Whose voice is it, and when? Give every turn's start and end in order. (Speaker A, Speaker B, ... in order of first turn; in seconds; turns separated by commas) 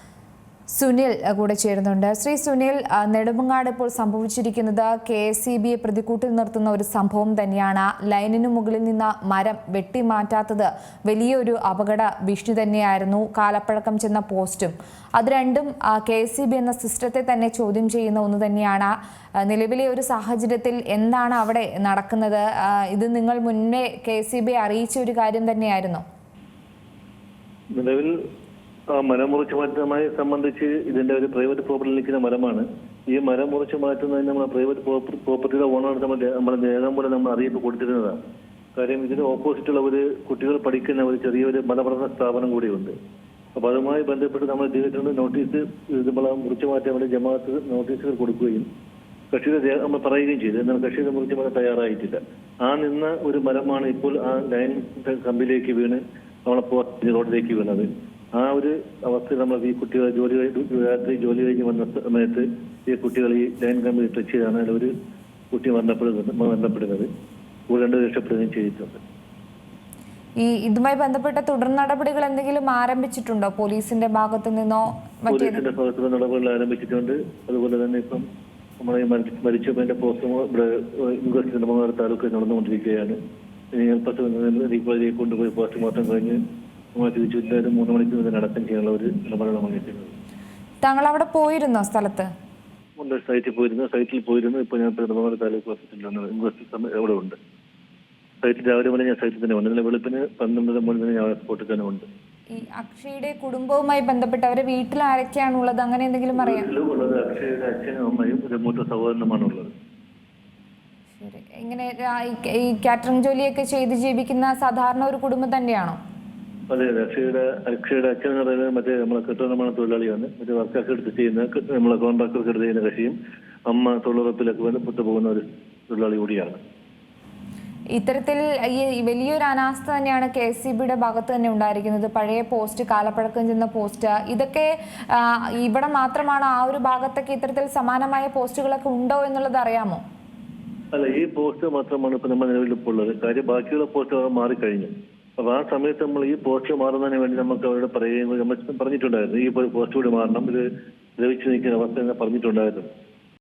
Speaker A: 0.7-26.0, Speaker B: 27.7-28.1, Speaker B: 28.9-38.2, Speaker B: 38.8-42.9, Speaker B: 43.5-48.7, Speaker B: 49.3-64.9, Speaker B: 65.5-67.1, Speaker B: 67.7-69.0, Speaker A: 70.4-75.6, Speaker B: 75.3-78.2, Speaker B: 78.8-83.2, Speaker B: 83.7-86.4, Speaker B: 86.9-90.1, Speaker A: 90.8-92.3, Speaker B: 93.0-97.4, Speaker B: 98.4-102.0, Speaker A: 102.5-106.7, Speaker B: 106.3-109.7, Speaker A: 111.2-116.0, Speaker B: 116.7-123.1, Speaker B: 123.7-126.6, Speaker A: 127.9-140.0, Speaker B: 140.9-150.6, Speaker B: 151.2-152.9